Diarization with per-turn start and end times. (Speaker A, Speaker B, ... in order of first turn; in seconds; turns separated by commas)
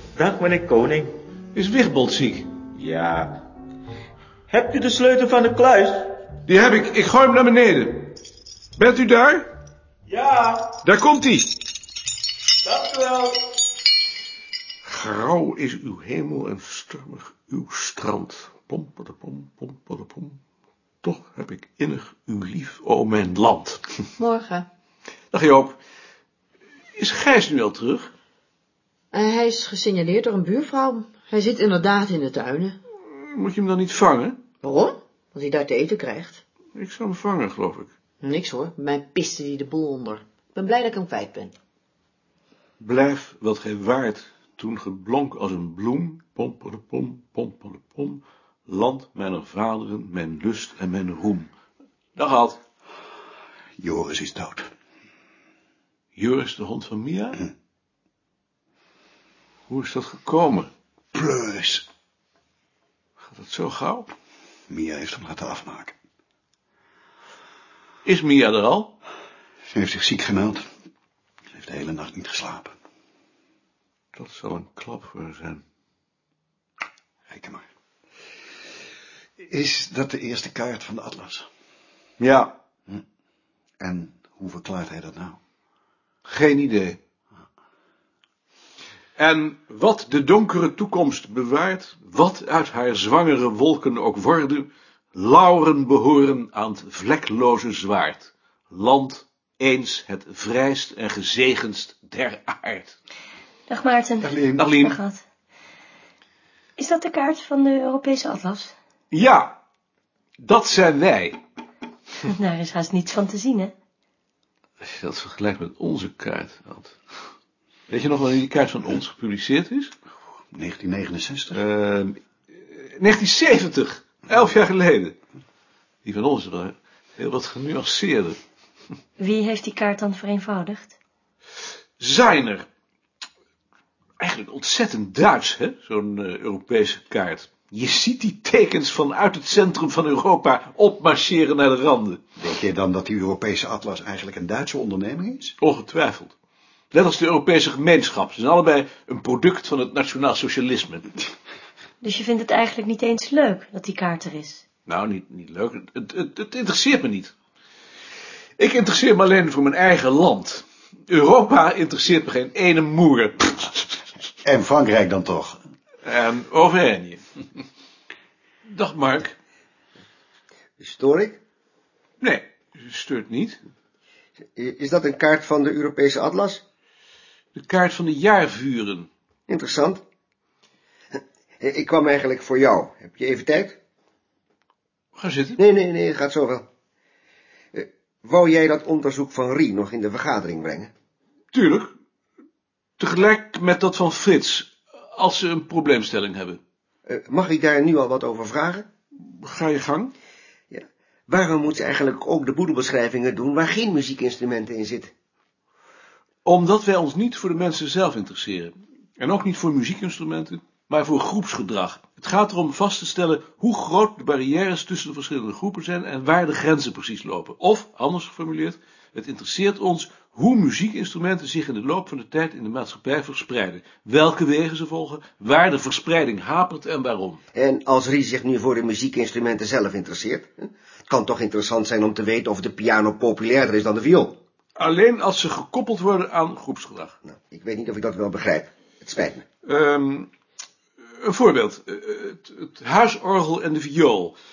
Speaker A: 0.2-1.1, Speaker B: 1.6-2.5, Speaker A: 2.8-3.3, Speaker A: 4.5-6.1, Speaker B: 6.5-8.1, Speaker B: 8.8-9.5, Speaker A: 10.1-10.7, Speaker B: 10.8-11.5, Speaker A: 12.7-13.4, Speaker B: 14.8-20.4, Speaker B: 21.0-23.8, Speaker C: 24.2-24.7, Speaker B: 25.3-25.8, Speaker B: 27.0-28.1, Speaker C: 29.1-32.8, Speaker B: 33.1-34.4, Speaker C: 34.6-36.4, Speaker B: 36.8-37.9, Speaker C: 38.2-41.5, Speaker B: 42.8-51.5, Speaker B: 52.2-52.6, Speaker D: 53.8-54.7, Speaker B: 56.2-57.4, Speaker B: 59.7-60.7, Speaker D: 61.1-61.8, Speaker B: 63.3-64.1, Speaker D: 64.7-65.9, Speaker B: 68.0-69.0, Speaker D: 69.7-70.7, Speaker D: 71.6-72.7, Speaker B: 74.2-75.6, Speaker D: 77.3-77.6, Speaker D: 79.4-81.5, Speaker B: 82.2-82.5, Speaker D: 83.8-85.4, Speaker B: 86.3-87.0, Speaker B: 89.2-103.0, Speaker E: 103.7-105.2, Speaker D: 104.2-104.6, Speaker B: 104.6-105.0, Speaker E: 106.8-108.7, Speaker B: 109.1-109.6, Speaker B: 110.4-111.4, Speaker E: 112.3-113.7, Speaker B: 114.8-117.0, Speaker B: 117.9-119.9, Speaker D: 120.5-121.6, Speaker B: 121.5-125.2, Speaker B: 126.0-128.4, Speaker E: 129.2-130.9, Speaker B: 132.0-132.7, Speaker B: 134.2-142.2, Speaker D: 142.4-145.5, Speaker B: 145.6-146.3, Speaker B: 146.9-151.1, Speaker E: 152.0-154.6, Speaker B: 154.9-157.3, Speaker B: 158.6-163.9, Speaker D: 164.4-165.6, Speaker B: 166.1-167.2, Speaker B: 168.7-169.4, Speaker F: 170.8-171.4, Speaker B: 172.2-173.6, Speaker F: 174.6-176.6, Speaker B: 177.5-179.1, Speaker F: 179.5-180.0, Speaker F: 181.1-183.8, Speaker B: 185.2-185.6, Speaker F: 185.6-186.7, Speaker F: 187.7-190.9, Speaker B: 191.5-191.9, Speaker B: 193.0-196.6, Speaker F: 197.1-198.9, Speaker B: 199.2-200.1, Speaker F: 200.7-205.1, Speaker B: 206.4-227.4, Speaker F: 227.6-234.4, Speaker B: 234.8-237.2, Speaker F: 237.3-239.4, Speaker B: 239.7-240.3, Speaker B: 241.2-244.4